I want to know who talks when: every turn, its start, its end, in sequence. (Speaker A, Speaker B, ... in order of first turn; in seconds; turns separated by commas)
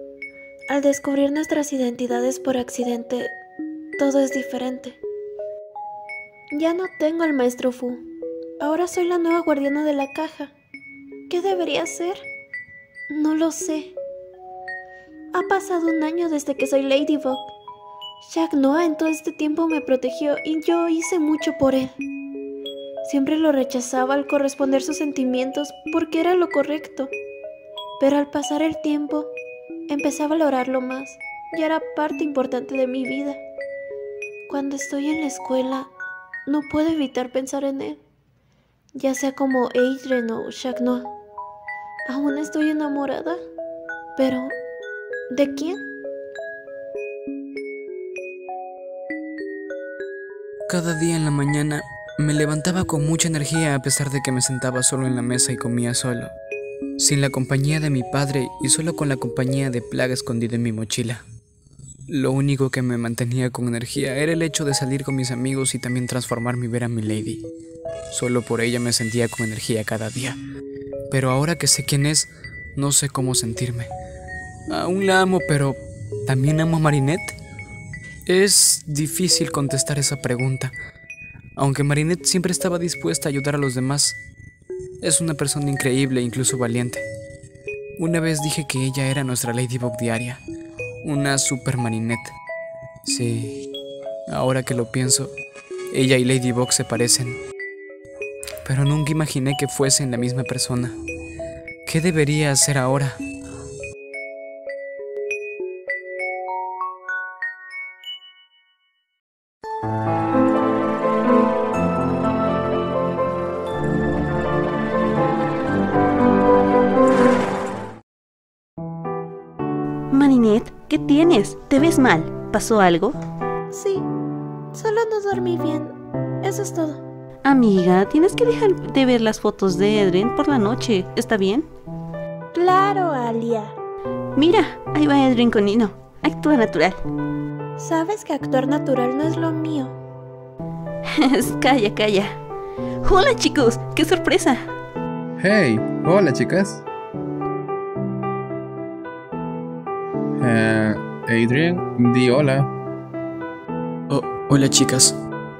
Speaker A: 0.7-3.4, Speaker A: 4.0-5.0, Speaker A: 6.5-8.0, Speaker A: 8.6-10.5, Speaker A: 11.3-12.2, Speaker A: 13.1-13.9, Speaker A: 15.3-17.5, Speaker A: 18.2-21.9, Speaker A: 23.0-27.1, Speaker A: 28.0-29.3, Speaker A: 29.9-33.4, Speaker A: 34.5-35.9, Speaker A: 36.5-38.0, Speaker A: 38.9-41.1, Speaker A: 42.1-43.4, Speaker A: 44.1-44.5, Speaker A: 45.3-45.8, Speaker B: 50.7-56.3, Speaker B: 57.0-61.2, Speaker B: 62.1-67.4, Speaker B: 68.1-70.4, Speaker B: 71.1-73.9, Speaker B: 74.7-77.3, Speaker B: 78.3-80.7, Speaker B: 81.6-84.2, Speaker B: 85.0-87.0, Speaker B: 88.0-90.4, Speaker B: 91.0-92.3, Speaker B: 93.0-93.7, Speaker B: 94.3-95.3, Speaker B: 95.9-97.4, Speaker B: 98.6-101.0, Speaker B: 101.8-103.2, Speaker C: 120.1-123.2, Speaker A: 123.7-124.1, Speaker A: 124.7-127.0, Speaker C: 127.4-131.7, Speaker A: 132.5-133.7, Speaker C: 134.3-137.0, Speaker A: 137.8-139.9, Speaker C: 141.1-142.4, Speaker C: 143.0-144.6, Speaker D: 145.4-146.8, Speaker D: 150.4-152.7, Speaker B: 154.1-155.2